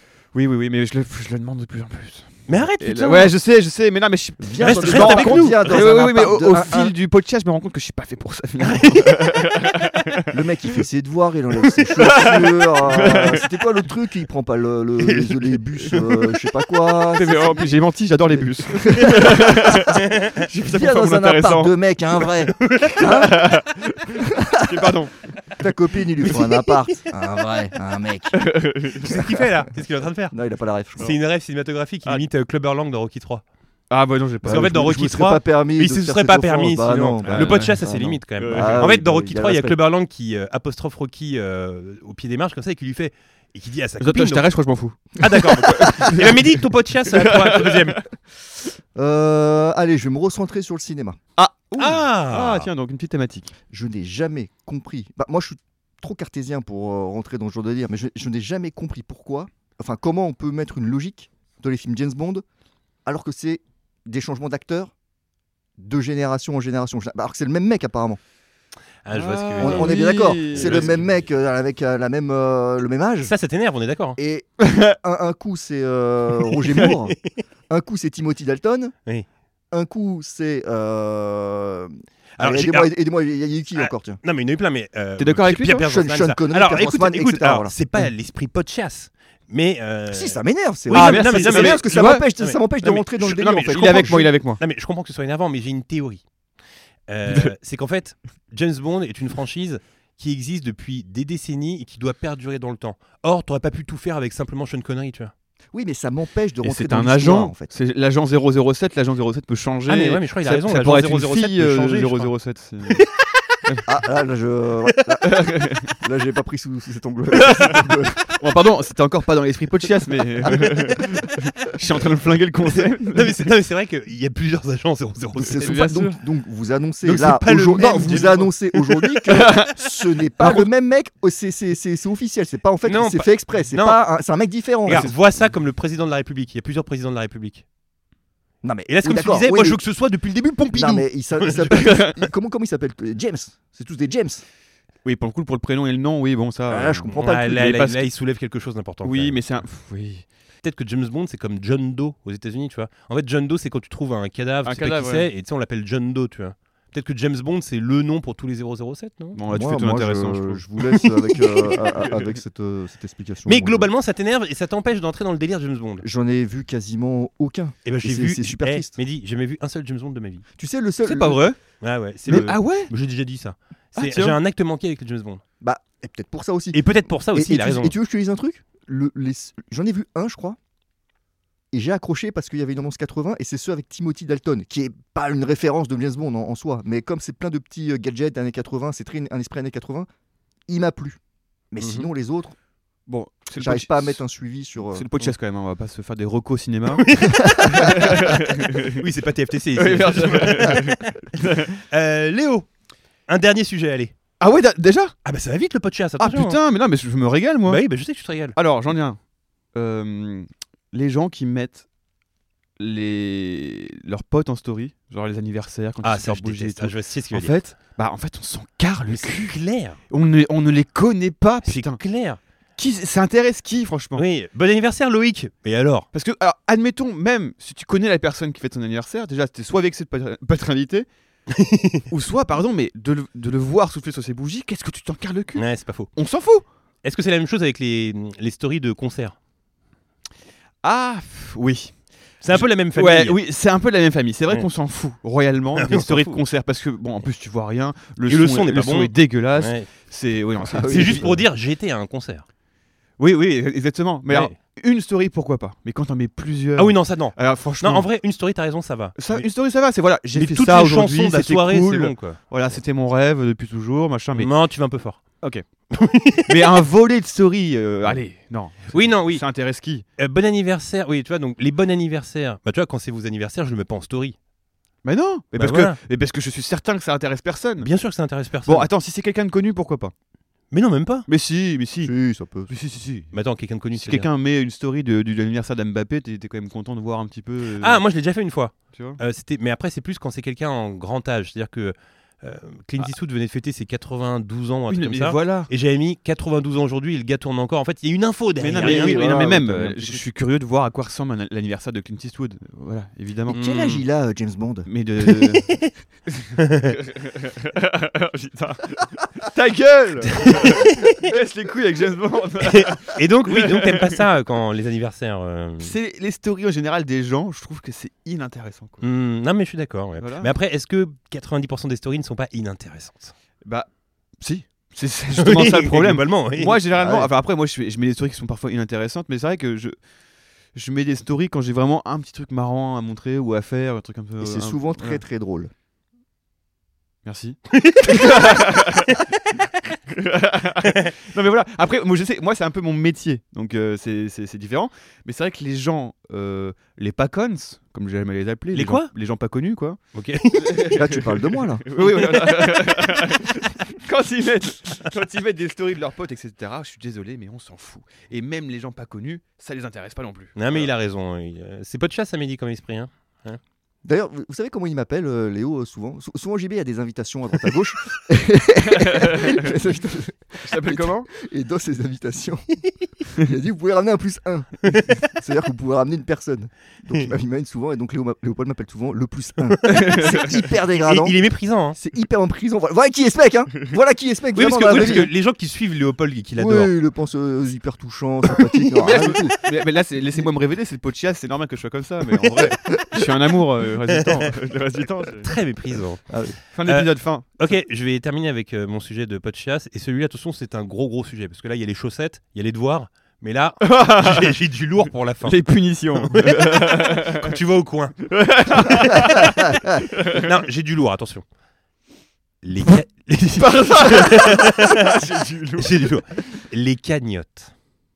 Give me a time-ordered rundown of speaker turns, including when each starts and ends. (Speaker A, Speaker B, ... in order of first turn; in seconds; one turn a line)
Speaker A: 0.3-10.3
Speaker B: 2.5-3.3
Speaker C: 4.4-6.9
Speaker B: 4.6-5.8
Speaker B: 8.7-9.0
Speaker C: 10.3-17.7
Speaker A: 12.0-13.4
Speaker A: 17.1-21.7
Speaker C: 18.7-19.9
Speaker C: 20.6-23.4
Speaker B: 22.6-23.1
Speaker A: 23.1-25.1
Speaker C: 24.3-24.9
Speaker C: 25.6-28.5
Speaker A: 28.3-29.1
Speaker B: 29.0-30.3
Speaker C: 30.3-31.1
Speaker B: 31.0-33.4
Speaker A: 33.9-34.9
Speaker C: 34.4-39.8
Speaker B: 34.5-44.6
Speaker A: 37.2-37.8
Speaker A: 38.4-39.0
Speaker A: 44.0-46.5
Speaker B: 45.2-48.0
Speaker A: 47.1-48.0
Speaker C: 48.9-51.2
Speaker A: 51.4-53.5
Speaker B: 51.8-52.7
Speaker C: 53.7-62.4
Speaker C: 63.0-64.9
Speaker C: 65.8-68.2
Speaker B: 69.0-71.0
Speaker A: 69.1-71.0
Speaker C: 69.6-73.3
Speaker B: 73.2-74.2
Speaker C: 74.2-77.2
Speaker A: 74.6-74.9
Speaker C: 77.7-78.9
Speaker C: 79.7-84.2
Speaker B: 82.4-82.9
Speaker B: 83.7-96.2
Speaker A: 85.2-85.8
Speaker C: 85.8-87.7
Speaker C: 90.1-94.3
Speaker A: 90.9-92.3
Speaker A: 93.3-94.6
Speaker B: 97.1-105.3
Speaker C: 105.7-107.7
Speaker A: 106.6-113.0
Speaker B: 109.9-112.3
Speaker C: 113.8-118.3
Speaker A: 115.3-115.9
Speaker A: 117.3-123.5
Speaker C: 120.4-121.0
Speaker B: 123.0-125.8
Speaker C: 125.4-135.1
Speaker A: 125.6-126.2
Speaker B: 127.0-128.6
Speaker A: 128.0-128.3
Speaker A: 129.3-129.8
Speaker B: 132.8-134.0
Speaker B: 134.8-137.6
Speaker A: 134.9-135.1
Speaker C: 138.6-139.8
Speaker B: 138.9-142.2
Speaker C: 140.7-144.4
Speaker A: 141.7-142.1
Speaker A: 145.0-148.1
Speaker C: 146.7-147.6
Speaker B: 147.2-149.4
Speaker A: 149.0-150.2
Speaker B: 150.6-159.4
Speaker A: 154.6-155.3
Speaker A: 159.3-160.6
Speaker C: 159.5-163.9
Speaker B: 160.9-161.8
Speaker B: 163.4-166.0
Speaker C: 166.0-168.9
Speaker B: 167.8-170.4
Speaker C: 170.6-171.4
Speaker A: 171.0-171.6
Speaker B: 171.8-175.4
Speaker A: 172.2-172.9
Speaker A: 173.9-174.4
Speaker C: 175.6-180.6
Speaker B: 176.7-177.9
Speaker C: 181.7-190.1
Speaker C: 190.7-191.2
Speaker C: 191.7-192.6
Speaker B: 191.8-192.1
Speaker A: 193.1-194.2
Speaker C: 193.6-195.1
Speaker A: 194.8-197.1
Speaker B: 196.9-201.2
Speaker C: 197.3-198.0
Speaker A: 197.7-199.0
Speaker A: 199.8-201.7
Speaker B: 201.8-202.7
Speaker B: 203.3-204.1
Speaker A: 204.4-205.1
Speaker B: 205.2-206.6
Speaker A: 206.2-207.8
Speaker B: 207.7-208.6
Speaker A: 208.5-209.2
Speaker A: 209.7-211.8
Speaker A: 212.8-219.6
Speaker B: 216.0-217.6
Speaker B: 219.1-220.0
Speaker A: 220.1-222.0
Speaker B: 221.7-222.4
Speaker A: 222.8-224.2
Speaker B: 224.2-226.1
Speaker A: 226.1-231.1
Speaker B: 231.5-232.0
Speaker A: 232.1-236.6
Speaker B: 235.6-236.1
Speaker B: 237.0-239.3
Speaker A: 240.8-241.9
Speaker B: 242.4-243.4
Speaker A: 242.5-251.3
Speaker B: 245.8-246.4
Speaker B: 248.3-249.9
Speaker C: 250.6-251.4
Speaker B: 250.8-252.4
Speaker A: 253.2-258.1
Speaker B: 254.3-254.5
Speaker B: 256.8-259.5
Speaker A: 259.2-264.5
Speaker B: 260.3-262.4
Speaker B: 264.3-265.2
Speaker B: 265.9-266.7
Speaker A: 266.4-270.0
Speaker B: 268.9-269.4
Speaker B: 270.2-274.4
Speaker A: 275.0-277.9
Speaker B: 275.6-276.0
Speaker B: 277.8-278.9
Speaker A: 278.6-280.1
Speaker B: 280.7-281.3
Speaker A: 281.3-282.1
Speaker C: 282.0-282.7
Speaker A: 282.7-283.3
Speaker B: 283.3-284.3
Speaker A: 283.9-288.0
Speaker B: 287.8-299.7
Speaker A: 288.9-289.2
Speaker A: 294.9-295.7
Speaker A: 298.6-303.6
Speaker C: 298.7-300.2
Speaker B: 303.5-304.0
Speaker C: 303.5-304.9
Speaker A: 304.9-305.7
Speaker B: 305.6-305.9
Speaker A: 306.3-314.2
Speaker B: 306.6-306.9
Speaker B: 310.4-311.1
Speaker B: 312.6-315.9
Speaker A: 315.8-319.0
Speaker B: 319.0-323.3
Speaker A: 320.2-320.5
Speaker A: 323.6-323.9
Speaker A: 324.4-329.9
Speaker B: 325.3-326.8
Speaker C: 327.0-327.3
Speaker A: 330.7-335.2
Speaker C: 334.4-335.7
Speaker A: 337.2-339.2
Speaker B: 337.7-338.7
Speaker A: 340.1-350.0
Speaker B: 348.7-349.1
Speaker B: 350.1-350.9
Speaker A: 350.6-360.9
Speaker C: 350.9-352.0
Speaker B: 360.6-363.6
Speaker C: 364.0-372.8
Speaker A: 368.9-369.7
Speaker A: 370.6-371.3
Speaker C: 373.3-381.4
Speaker B: 374.8-375.3
Speaker A: 379.8-380.7
Speaker B: 380.9-382.0
Speaker C: 381.9-385.3
Speaker B: 384.5-386.9
Speaker C: 386.6-389.6
Speaker B: 389.0-389.4
Speaker A: 389.0-395.5
Speaker B: 392.3-392.7
Speaker B: 395.4-396.2
Speaker C: 396.3-396.6
Speaker A: 396.7-397.4
Speaker B: 396.8-409.5
Speaker A: 403.8-404.5
Speaker A: 405.4-407.6
Speaker A: 408.3-410.4
Speaker B: 410.2-411.4
Speaker B: 412.6-415.2
Speaker A: 413.6-415.9
Speaker B: 415.8-417.7